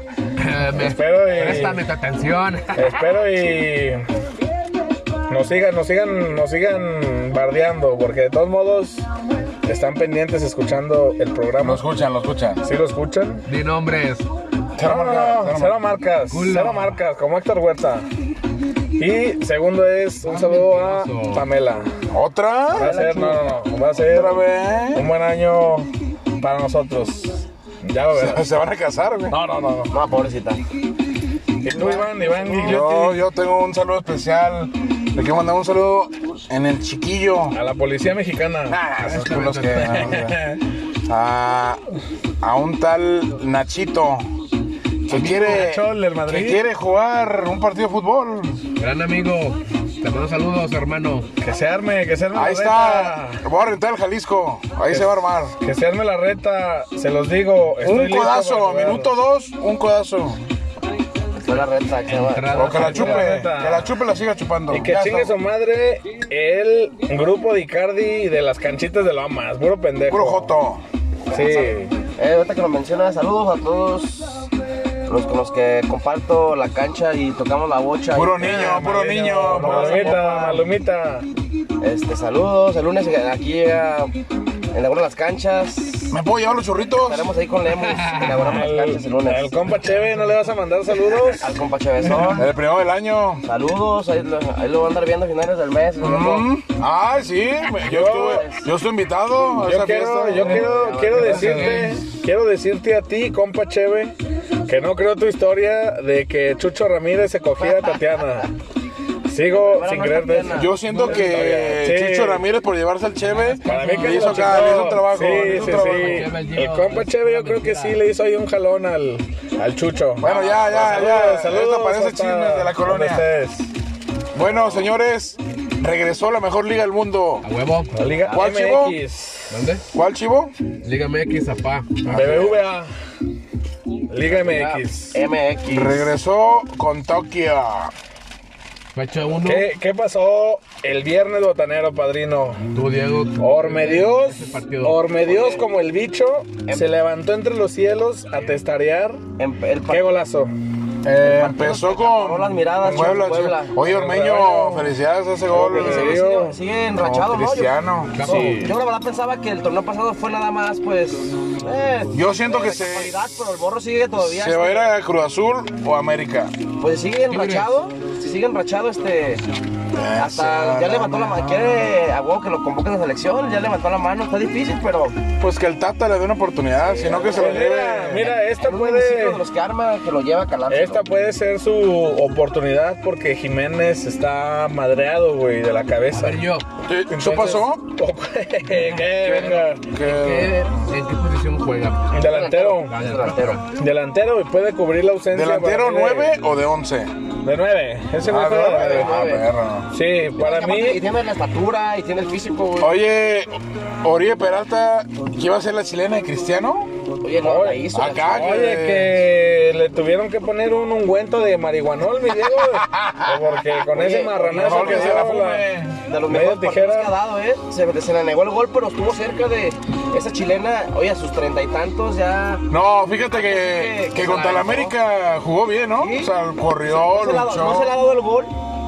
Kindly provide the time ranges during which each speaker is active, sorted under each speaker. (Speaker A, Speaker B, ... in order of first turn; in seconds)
Speaker A: 0.4-3.2, 13.5-14.3, 16.3-17.0, 20.2-21.4, 39.0-40.4, 45.1-45.7, 48.8-51.3, 62.1-63.3, 87.7-88.7, 92.0-92.5, 101.1-102.0, 110.9-111.7, 113.3-118.0, 127.4-128.1, 129.5-129.8, 130.8-132.0, 138.9-139.7, 142.7-145.0, 158.1-158.7, 167.3-167.7, 186.1-186.7, 187.2-187.6, 188.7-192.2, 192.9-193.6
Speaker B: 0.7-1.8, 2.7-4.1, 5.3-9.1, 9.7-11.8, 12.6-13.5, 14.8-18.1, 19.0-21.9, 22.7-28.4, 29.3-29.9, 31.6-33.2, 37.5-38.8, 39.8-40.6, 45.2-46.6, 51.4-53.4, 54.9-59.1, 62.9-63.9, 64.7-70.5, 71.3-71.9, 78.4-81.3, 88.4-91.5, 97.8-98.4, 99.6-104.2, 104.7-108.5, 109.3-112.5, 113.7-123.7, 127.9-129.6, 132.0-132.9, 134.1-135.2, 139.4-142.6, 143.4-149.2, 149.9-150.5, 153.8-154.9, 155.5-156.6, 158.2-158.8, 177.3-179.4, 180.7-186.4, 187.2-189.8, 192.1-192.9, 193.8-196.4, 197.4-199.1, 199.9-201.0, 207.4-215.7, 216.2-217.1
Speaker C: 1.4-1.7, 11.6-12.6, 14.8-15.8, 22.1-22.9, 23.9-25.1, 28.1-29.4, 32.5-37.6, 38.7-40.4, 41.1-41.8, 42.4-44.3, 45.1-48.6, 52.3-55.5, 57.8-60.4, 62.5-65.3, 70.1-70.8, 78.1-80.2, 86.1-87.3, 92.3-93.4, 96.0-102.0, 110.5-116.3, 120.2-123.3, 124.3-127.5, 128.3-129.0, 129.9-130.5, 132.1-132.6, 135.7-137.9, 151.0-156.2, 157.0-158.3, 162.1-163.2, 164.2-166.5, 169.9-172.0, 175.4-178.3, 186.8-187.9, 189.9-190.7, 195.3-197.1, 198.2-199.9, 202.8-206.9, 207.9-209.2, 212.5-213.6, 214.5-216.0, 222.7-228.0
Speaker D: 22.8-23.4, 29.9-30.6, 31.7-32.5, 61.4-63.1, 71.3-74.5, 75.1-78.9, 79.4-80.7, 81.8-84.1, 84.7-86.2, 87.0-89.8, 91.3-92.5, 93.4-96.5, 98.1-98.7, 100.5-101.8, 107.6-108.5, 109.5-110.8, 134.3-136.1, 145.2-145.7, 149.4-150.1, 151.2-153.8, 155.5-164.9, 166.8-169.4, 170.2-175.2, 176.7-181.0, 192.2-193.6, 198.7-199.5, 200.4-202.9, 207.2-208.6, 213.9-215.3, 216.1-222.7, 223.3-224.9, 226.0-228.5